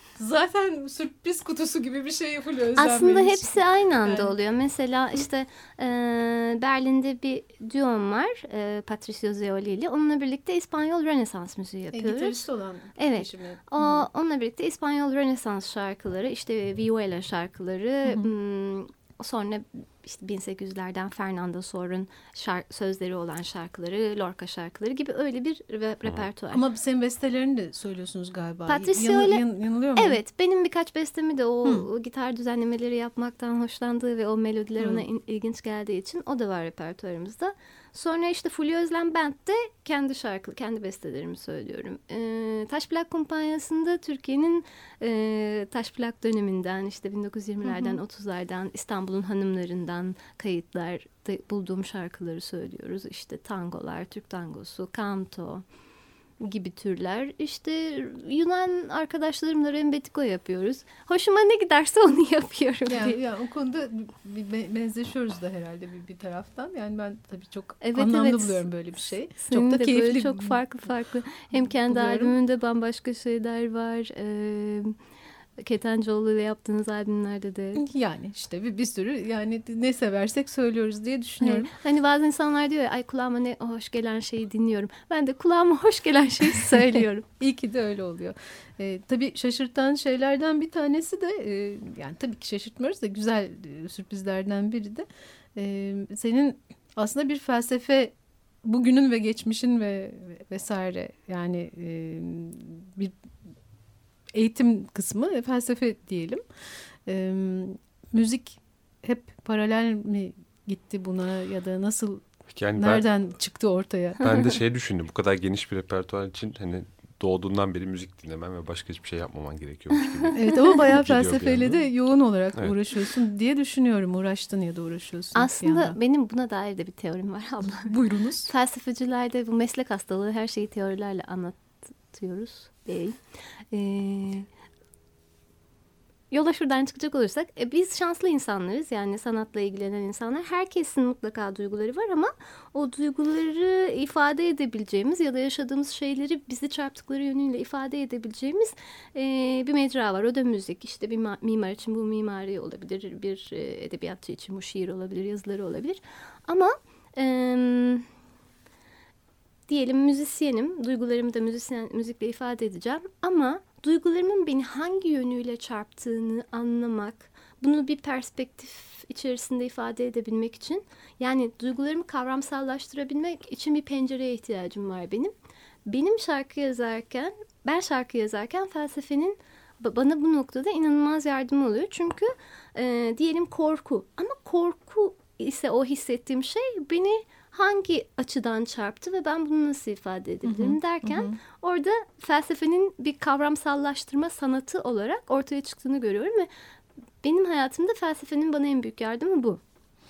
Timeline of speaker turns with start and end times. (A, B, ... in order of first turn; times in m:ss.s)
0:00.2-0:04.4 A
0:02.8-0:26.6 B
0:11.9-0:14.0 A
0:18.0-0:18.3 A
0:26.5-0:30.2 A
0:28.7-0:29.4 B
0:30.0-0:55.6 B
0:34.8-0:35.0 A
0:47.6-0:48.0 A
0:56.4-1:03.2 B
1:02.8-1:10.6 A
1:07.8-1:14.9 B
1:11.5-1:12.4 A
1:15.6-1:17.8 B
1:17.7-1:21.7 A
1:21.4-1:27.2 B
1:27.4-1:43.1 A
1:44.3-1:46.4 A
1:47.0-1:54.4 A
1:52.5-1:53.1 C
1:54.2-2:01.8 C
2:00.3-2:06.0 A
2:05.3-2:07.9 B
2:07.8-2:08.5 A
2:08.5-2:13.2 B
2:13.7-2:14.4 B
2:16.3-2:38.0 B
2:39.7-2:55.3 B
2:55.9-3:16.5 B
3:10.4-3:11.4 A
3:17.2-3:19.6 B